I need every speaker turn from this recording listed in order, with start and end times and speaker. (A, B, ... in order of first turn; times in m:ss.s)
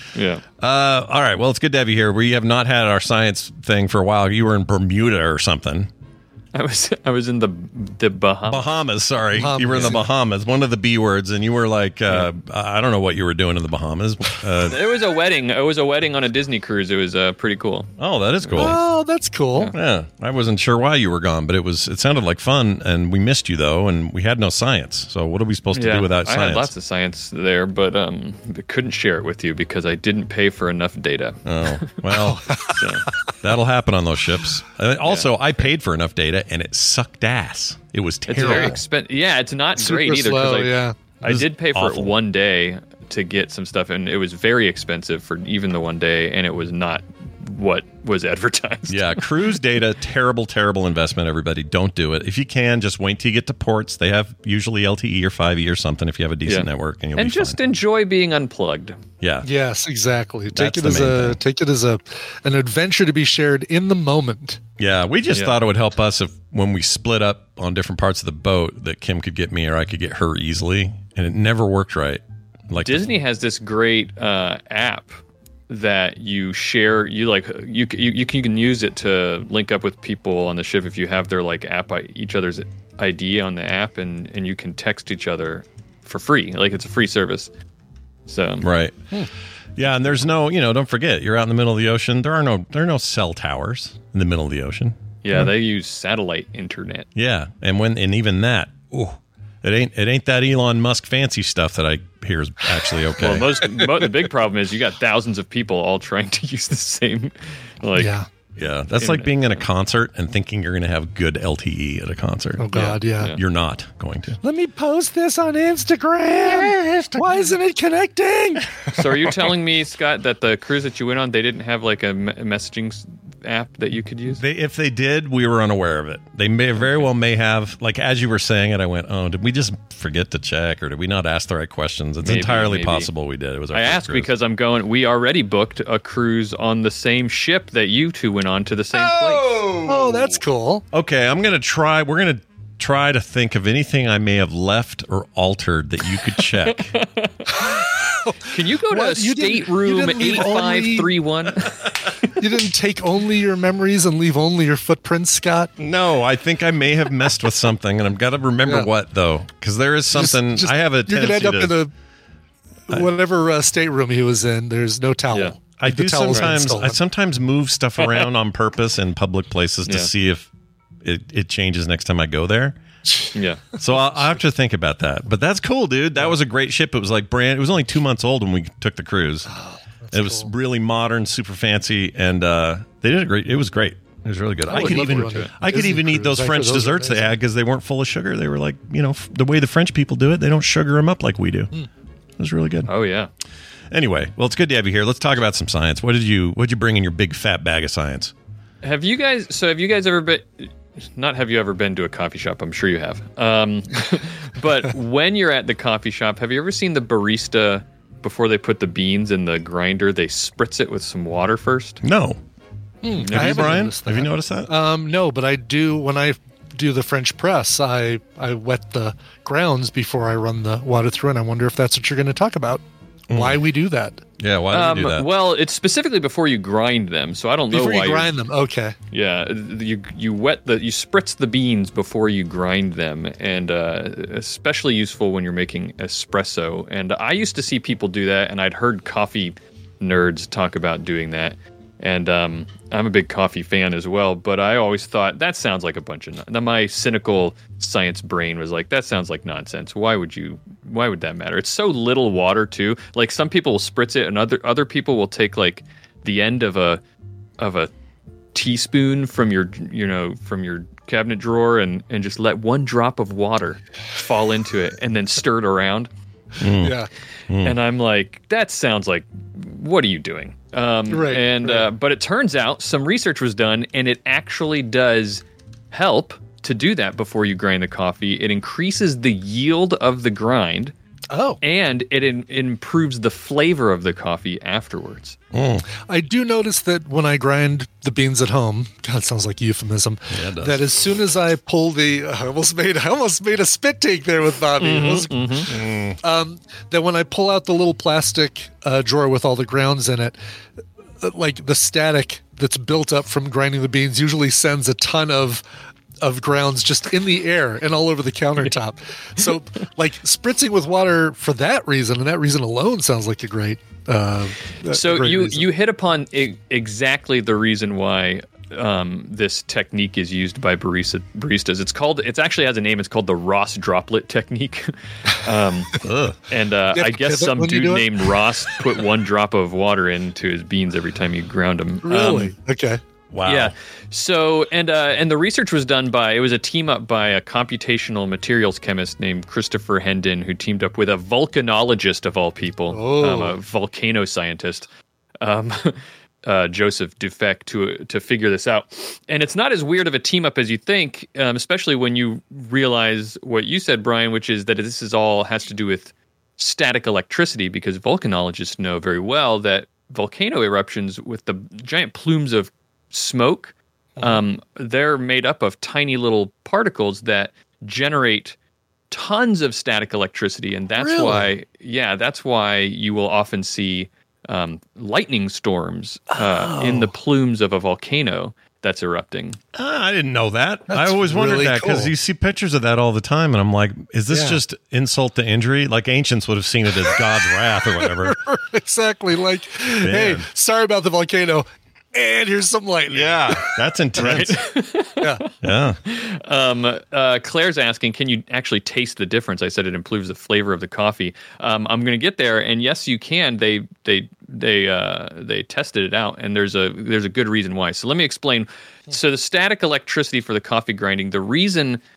0:00.2-0:00.4 A
0:00.6-0:05.9 B
0:06.5-0:08.7 A
0:08.5-0:14.8 B
0:09.4-0:10.1 C
0:09.7-0:10.0 A
0:14.6-0:17.9 A
0:18.0-0:18.8 B
0:18.4-0:18.8 A
0:18.6-0:19.7 C
0:19.7-0:26.7 B
0:25.7-0:32.0 A
0:31.4-0:32.9 B
0:32.1-0:32.9 C
0:32.8-0:33.0 A
0:33.4-0:38.8 B
0:35.0-0:35.5 A
0:38.3-0:49.5 A
0:38.3-0:38.8 C
0:39.8-0:41.3 C
0:41.2-0:42.2 B
0:48.9-0:57.6 B
0:56.4-0:59.0 A
0:59.2-0:59.5 B
0:59.4-1:04.6 C
1:00.5-1:01.4 B
1:04.8-1:13.1 B
1:12.8-1:15.2 A
1:15.7-1:27.5 A
1:28.3-1:28.6 A
1:28.6-1:29.0 B
1:29.8-1:35.5 B
1:35.2-1:37.1 A
1:37.2-1:43.8 B
1:43.2-1:48.1 A
1:48.0-1:48.3 C
1:48.6-1:54.4 B
1:49.0-1:49.6 A
1:52.6-1:53.4 C
1:52.7-1:53.4 A
1:54.4-1:59.2 C
1:58.9-2:04.4 A
2:04.3-2:14.3 B
2:06.8-2:07.1 A
2:12.2-2:13.1 A
2:13.7-2:19.7 A
2:18.9-2:20.4 B
2:19.8-2:20.8 C
2:20.9-2:27.0 B
2:26.4-2:27.7 A
2:27.5-2:31.1 C
2:28.5-2:32.3 A
2:32.4-2:35.7 C
2:35.8-2:41.8 B
2:40.1-2:41.9 C
2:42.9-2:47.0 C
2:45.3-2:45.6 A
2:45.8-2:50.5 B
2:46.3-2:46.6 A
2:48.0-2:48.3 A
2:49.9-2:50.1 A
2:51.0-2:52.8 B
2:53.1-2:53.4 C
2:53.4-2:53.7 A
2:53.8-2:59.5 B
2:53.9-2:54.4 C
2:59.5-3:00.5 C
3:00.1-3:11.7 B
3:04.7-3:07.3 C
3:04.7-3:05.5 A
3:12.4-3:12.9 B
3:12.9-3:13.3 A
3:13.9-3:18.3 B
3:18.8-3:32.0 A
3:32.0-3:32.4 B
3:33.0-3:44.2 C
3:33.2-3:34.7 B
3:33.3-3:33.8 A
3:43.3-3:43.6 B
3:44.4-3:45.3 B
3:44.7-3:48.3 A
3:47.7-3:49.0 C
3:49.1-4:17.0 A
4:17.6-4:17.9 A
4:18.5-4:26.1 A
4:26.6-4:27.8 B
4:26.8-4:27.1 C
4:27.6-4:40.9 A
4:31.1-4:31.9 C
4:41.3-4:41.6 C
4:41.6-4:45.4 A
4:45.5-4:45.8 B
4:46.0-4:55.4 C
4:50.3-4:50.8 B
4:54.8-4:55.7 A
4:55.7-4:56.2 B
4:56.2-5:00.4 C
5:01.2-5:05.6 C
5:06.2-5:15.7 C
5:14.9-5:26.0 A
5:26.0-5:26.4 B
5:26.5-5:32.5 A
5:26.9-5:28.4 C
5:32.0-5:33.0 C
5:33.3-5:33.8 B
5:33.4-5:44.9 A
5:42.9-5:43.6 C
5:45.4-6:08.6 A
6:04.2-6:04.4 C
6:09.1-6:19.6 A
6:11.0-6:11.5 C
6:16.4-6:17.0 B
6:16.7-6:17.0 C
6:19.7-6:28.4 B
6:20.9-6:22.1 C
6:24.3-6:24.6 C
6:28.0-6:34.6 C
6:30.0-6:30.5 B
6:33.1-6:34.6 B
6:34.2-6:35.5 A
6:35.6-6:36.0 B
6:36.1-6:52.0 A